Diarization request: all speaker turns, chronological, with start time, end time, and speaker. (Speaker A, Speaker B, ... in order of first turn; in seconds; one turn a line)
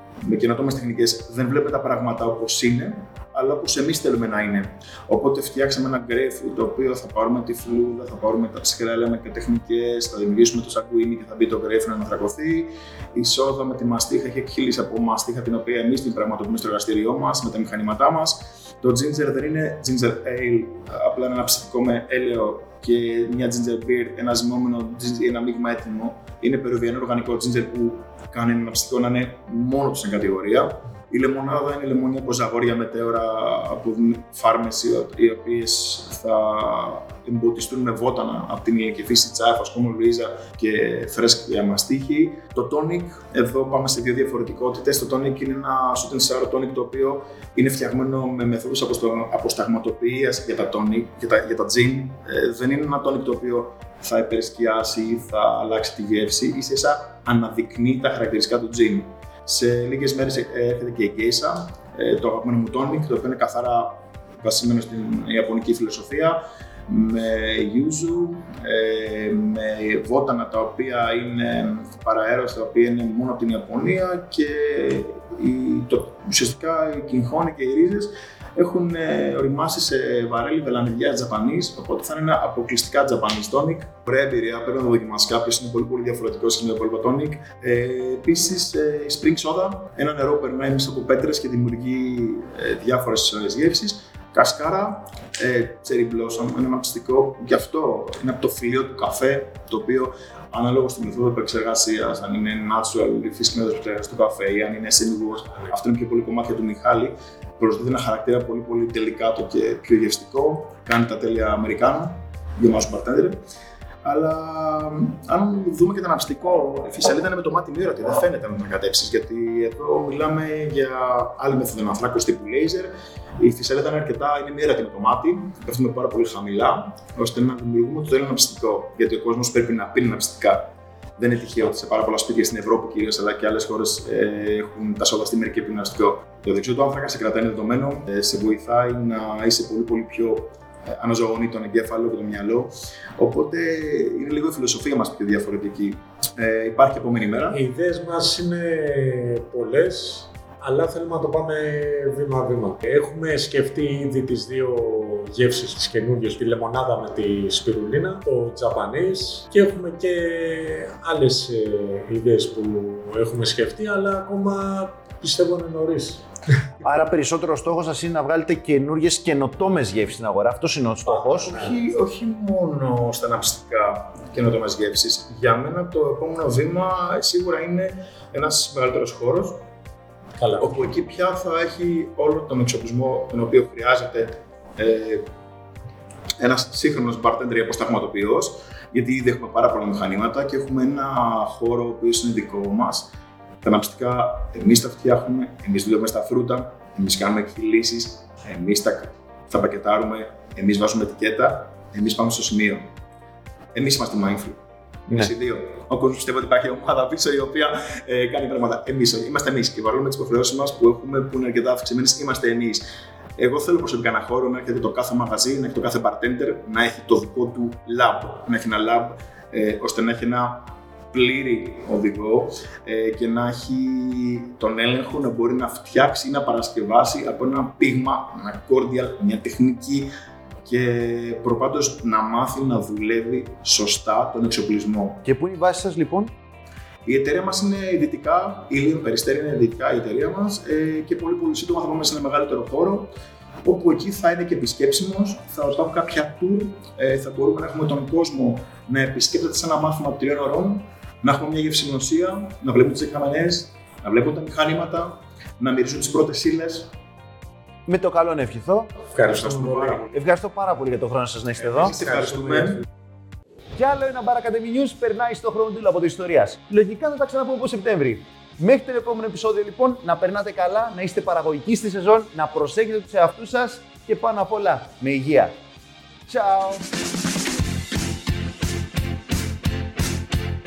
Speaker A: 0.2-113.4
Speaker A: 114.0-147.6
Speaker B: 147.5-166.7
Speaker C: 166.8-171.6
Speaker B: 171.1-171.8
Speaker A: 171.5-179.6
Speaker B: 180.4-180.9
Speaker A: 180.6-185.2
Speaker A: 186.4-193.1
Speaker A: 193.6-202.9
Speaker A: 203.7-230.1
Speaker A: 230.7-235.2
Speaker C: 235.2-236.3
Speaker A: 237.1-243.1
Speaker A: 243.7-256.9
Speaker C: 257.9-259.0
Speaker B: 259.1-260.0
Speaker A: 259.4-260.0
Speaker C: 260.1-262.0
Speaker A: 261.6-262.8
Speaker C: 263.8-275.6
Speaker C: 276.3-276.9